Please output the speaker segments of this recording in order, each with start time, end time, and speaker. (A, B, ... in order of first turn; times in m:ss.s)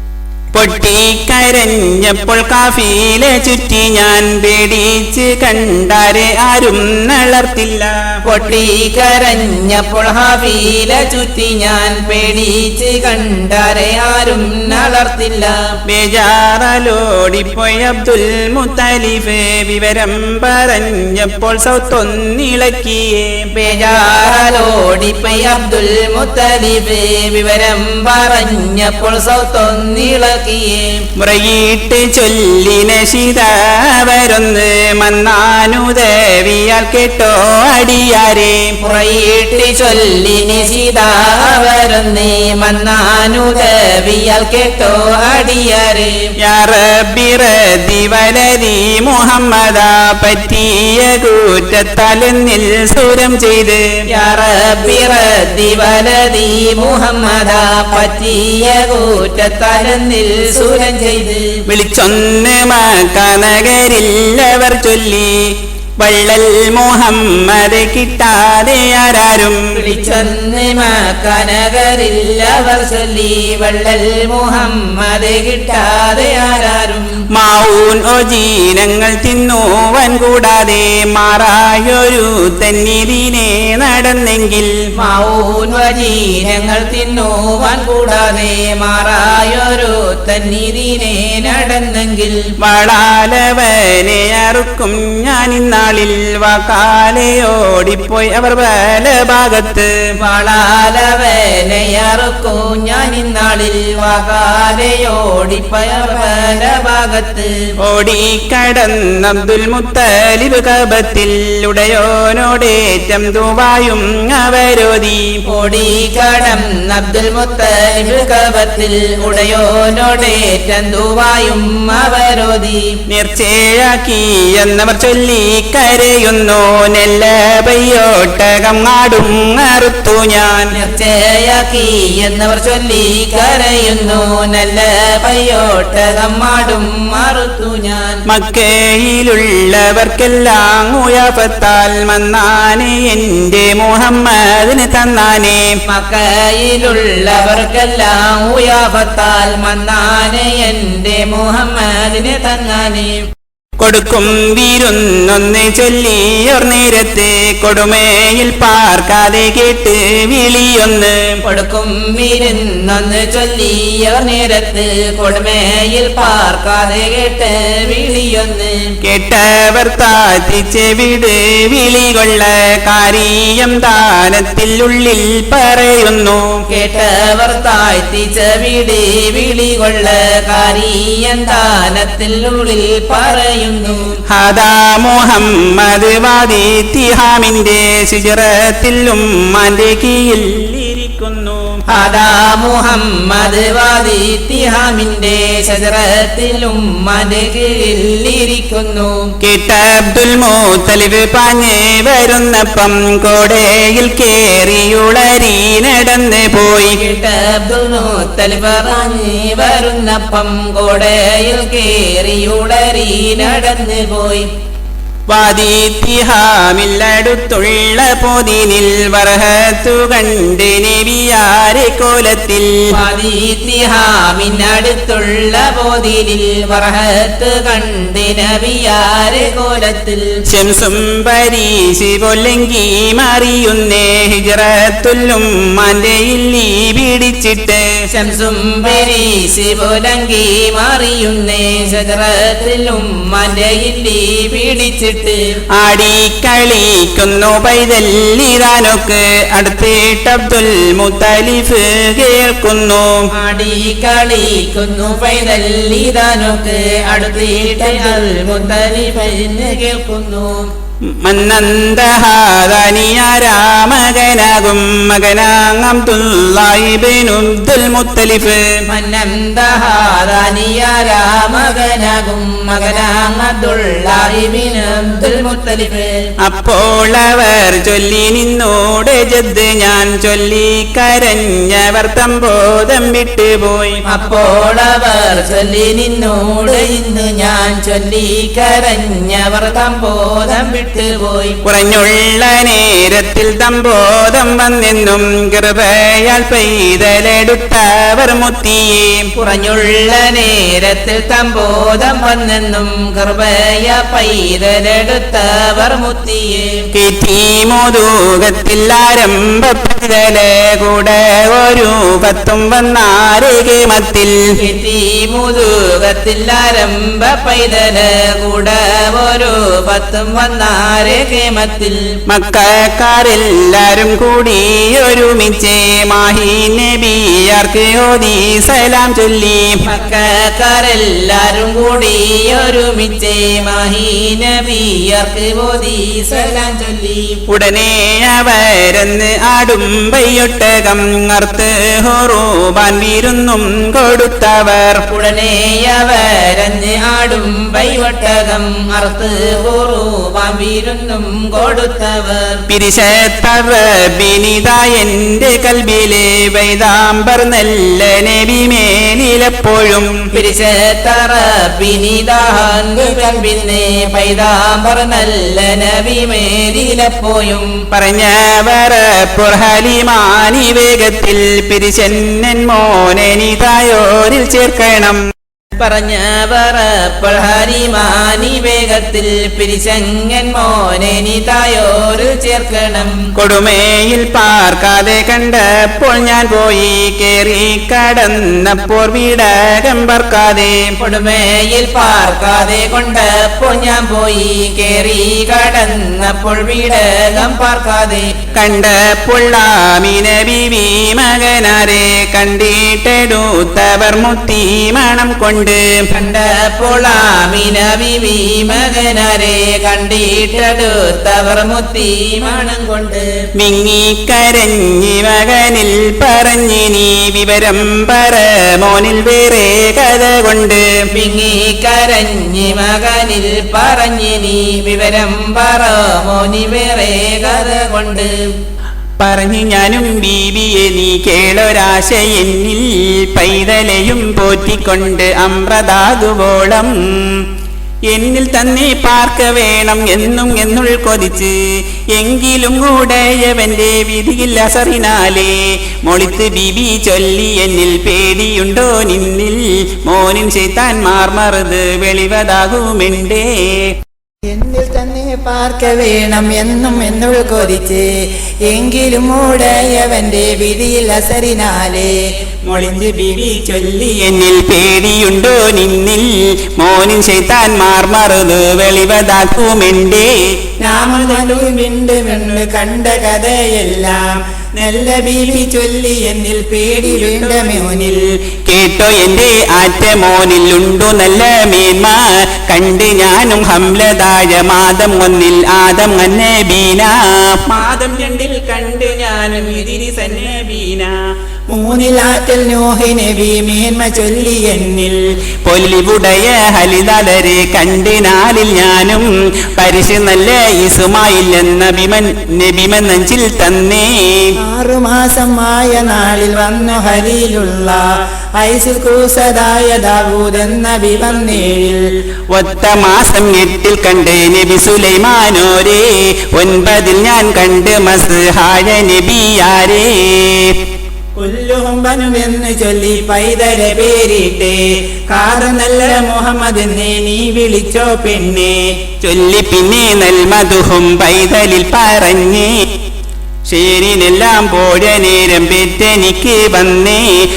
0:00.5-0:07.9 A
0:08.2-0:15.6 B
0:15.9-0:23.4 A
0:23.5-0:31.0 B
0:31.2-0:38.8 A
0:38.8-0:46.3 B
0:46.4-0:53.8 A
0:54.1-1:01.4 B
1:01.7-1:05.4 A
1:06.0-1:09.6 A
1:09.7-1:17.1 B
1:17.3-1:24.7 A
1:25.0-1:32.4 B
1:32.6-1:39.9 A
1:40.2-1:47.5 B
1:47.8-1:55.4 A
1:55.5-2:02.8 B
2:03.1-2:10.7 A
2:10.7-2:18.2 B
2:18.3-2:25.6 A
2:25.9-2:33.2 B
2:33.8-2:41.2 A
2:41.4-2:48.7 B
2:49.0-2:56.6 A
2:56.7-3:04.0 B
3:04.3-3:11.8 A
3:11.9-3:19.3 B
3:19.4-3:27.0 A
3:27.0-3:34.5 B
3:35.3-3:42.7 A
3:42.9-3:50.3 B
3:50.5-3:57.8 A
3:58.1-4:05.4 B
4:05.8-4:13.3 A
4:13.3-4:20.7 B
4:21.2-4:28.6 A
4:28.9-4:36.1 B
4:36.4-4:44.0 A
4:44.0-4:51.6 B
4:51.6-4:59.3 A
4:59.4-5:06.8 B
5:06.9-5:14.4 A
5:14.6-5:22.0 B
5:22.3-5:29.8 A
5:29.9-5:37.4 B
5:37.5-5:45.0 A
5:45.1-5:52.6 B
5:52.7-6:00.1 A
6:00.3-6:07.7 B
6:07.9-6:15.2 A
6:15.8-6:23.2 B
6:23.4-6:30.9 A
6:31.0-6:38.3 B
6:38.6-6:45.8 A
6:46.1-6:53.3 B
6:53.6-7:00.9 A
7:01.1-7:08.3 B
7:09.2-7:17.4 A
7:18.1-7:21.5 A
7:22.1-7:25.5 A
7:26.1-7:33.9 A
7:34.5-7:38.0 C
7:37.3-7:37.9 B
7:38.7-7:41.4 C
7:39.6-7:42.1 B
7:42.6-7:43.8 C
7:43.6-7:50.3 A
7:50.8-7:58.1 C
7:57.1-8:11.2 A
8:11.7-8:15.2 C
8:15.6-8:24.5 A
8:24.7-8:28.0 C
8:28.6-8:31.9 C
8:32.5-8:40.8 A
8:41.4-8:48.8 C
8:49.2-8:52.7 A
8:53.7-8:57.2 A